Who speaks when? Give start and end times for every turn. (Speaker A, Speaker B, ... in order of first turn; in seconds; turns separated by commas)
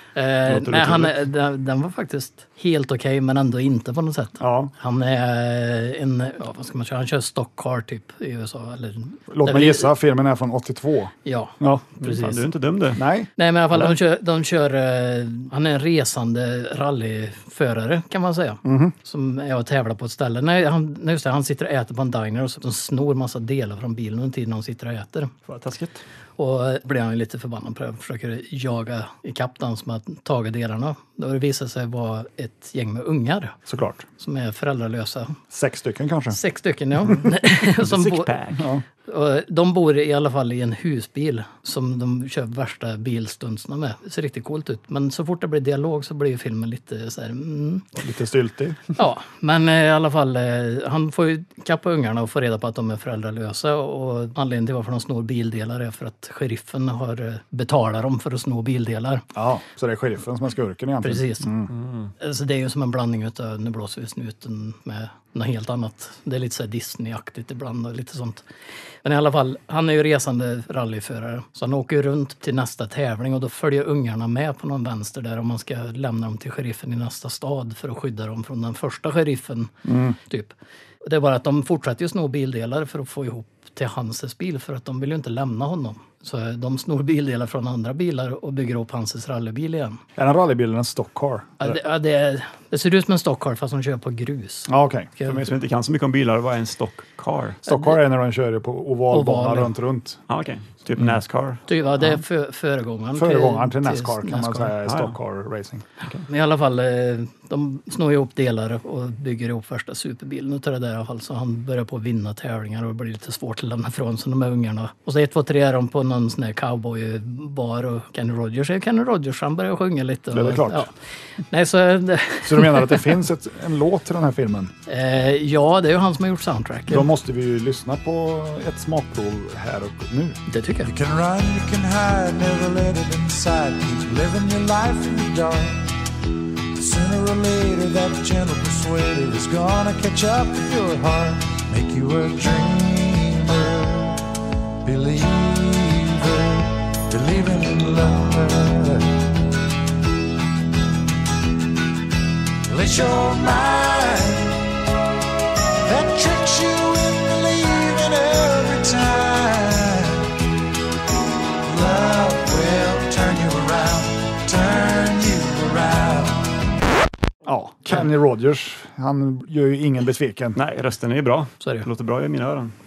Speaker A: 0.1-9.9, Speaker B: 0.5-1.1, Speaker C: 4.4-4.7, Speaker C: 9.3-11.8, Speaker A: 11.2-12.4, Speaker B: 12.0-13.0, Speaker C: 12.9-13.3, Speaker A: 13.4-25.3, Speaker C: 18.6-18.9, Speaker B: 25.5-26.0, Speaker A: 26.4-33.5, Speaker C: 33.7-34.1, Speaker A: 34.2-35.4, Speaker C: 35.5-36.4, Speaker A: 36.3-38.3, Speaker B: 37.8-38.6, Speaker C: 38.5-38.8, Speaker A: 39.1-47.9, Speaker C: 48.0-48.8, Speaker A: 49.0-59.2, Speaker C: 59.3-61.7, Speaker A: 61.0-61.5, Speaker B: 61.7-62.1, Speaker A: 62.2-68.4, Speaker A: 69.0-90.0, Speaker C: 79.8-80.2, Speaker C: 90.2-91.8, Speaker A: 91.6-95.4, Speaker C: 94.7-95.1, Speaker B: 95.2-97.7, Speaker C: 97.6-100.2, Speaker A: 99.1-99.7, Speaker B: 100.3-101.6, Speaker A: 101.7-104.7, Speaker C: 103.1-105.8, Speaker B: 104.8-105.2, Speaker A: 106.3-120.9, Speaker C: 120.3-120.9, Speaker A: 121.5-123.0, Speaker C: 122.4-124.7, Speaker A: 124.9-127.1, Speaker C: 126.9-130.4, Speaker A: 130.5-130.9, Speaker D: 130.8-135.9, Speaker D: 136.8-144.2, Speaker D: 144.8-149.2, Speaker D: 152.7-154.7, Speaker D: 155.8-160.4, Speaker D: 161.6-166.5, Speaker C: 167.4-170.6, Speaker B: 170.5-172.7, Speaker A: 171.6-171.8